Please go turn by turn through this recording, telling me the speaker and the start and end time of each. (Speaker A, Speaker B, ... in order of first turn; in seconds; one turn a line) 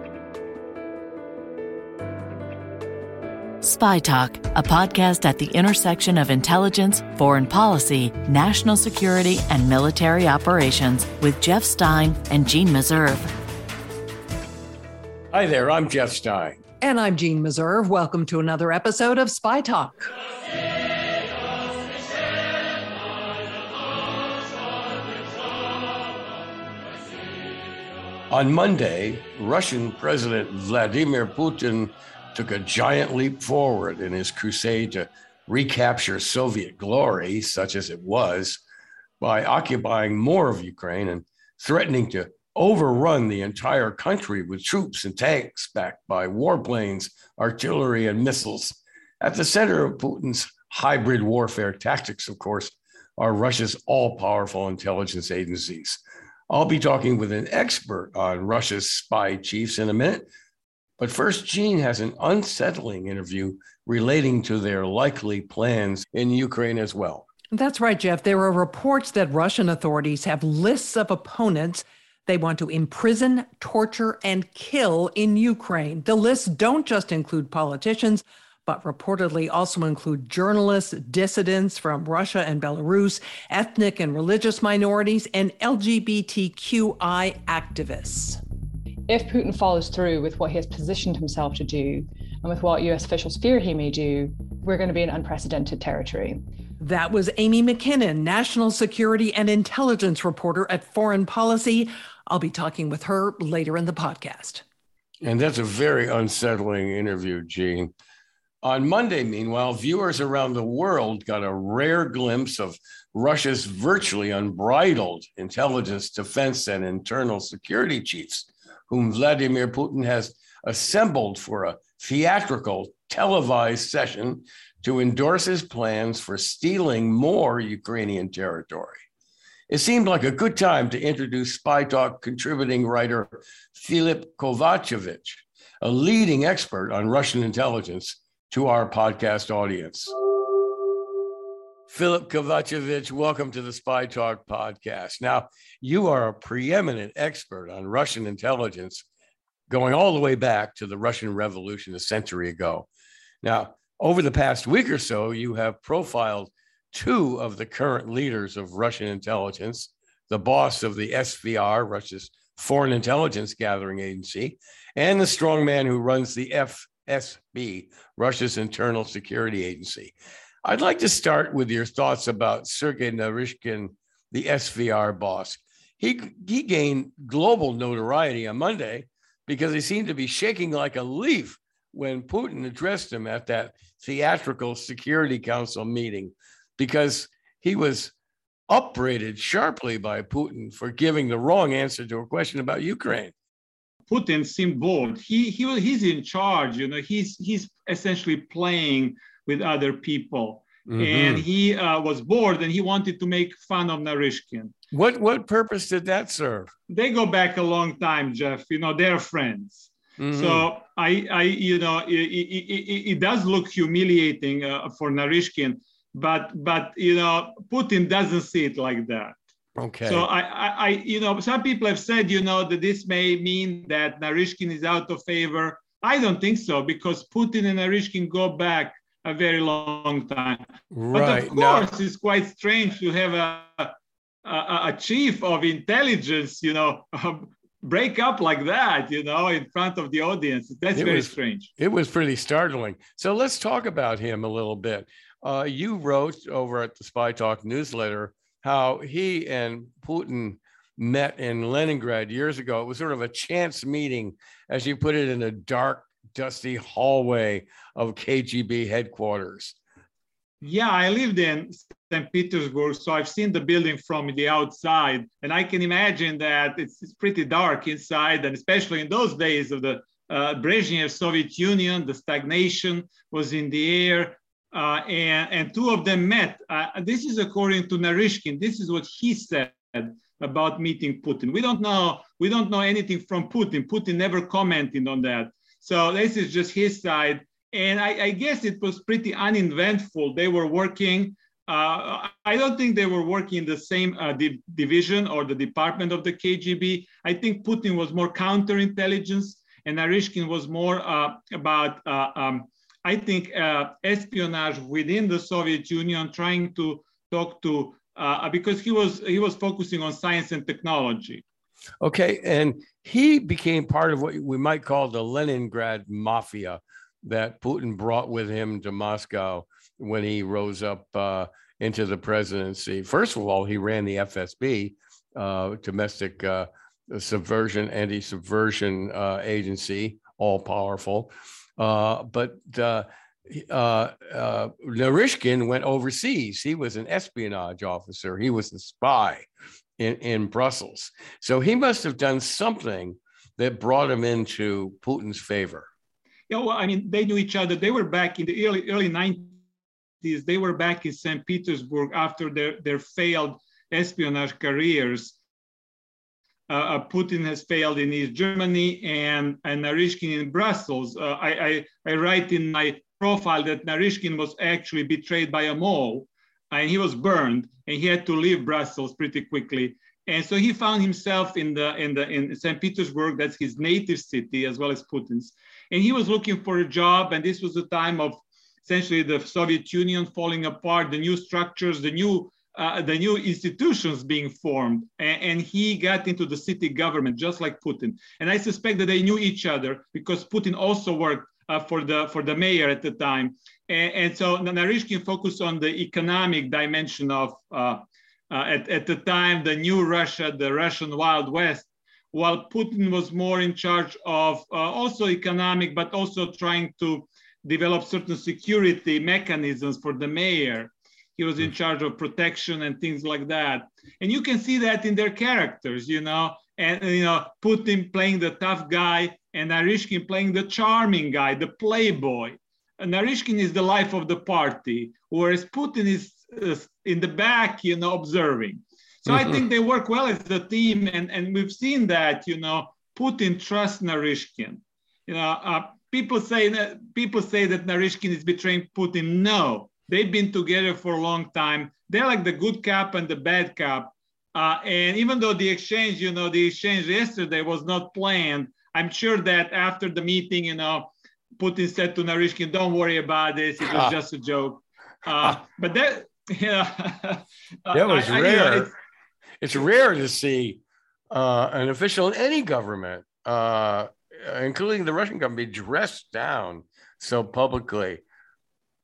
Speaker A: 3.6-13.3
Speaker B: 15.3-16.6
Speaker C: 16.8-20.1
Speaker B: 28.3-38.6
Speaker B: 39.2-60.3
Speaker B: 61.0-67.2
Speaker C: 67.5-88.4
Speaker D: 89.1-96.4
Speaker C: 96.8-104.6
Speaker B: 105.2-107.9
Speaker B: 108.6-129.0
Speaker B: 129.7-140.1
Speaker B: 141.9-149.0
Speaker B: 149.7-152.9
Speaker B: 153.4-188.1
Speaker B: 188.7-193.3
Speaker E: 194.1-204.7
Speaker B: 200.9-201.4
Speaker B: 204.9-206.7
Speaker E: 206.9-219.4
Speaker B: 210.2-210.7
Speaker B: 219.8-220.3
Speaker E: 220.0-233.9
Speaker B: 230.9-231.9
Speaker E: 234.4-241.7
Speaker B: 240.9-259.8
Speaker E: 260.6-311.4
Speaker B: 312.0-339.5
Speaker B: 340.0-345.9
Speaker E: 346.5-349.6
Speaker E: 350.2-355.4
Speaker E: 356.7-458.9
Speaker B: 429.3-429.6
Speaker B: 453.8-454.2
Speaker B: 457.9-458.9
Speaker B: 459.6-468.2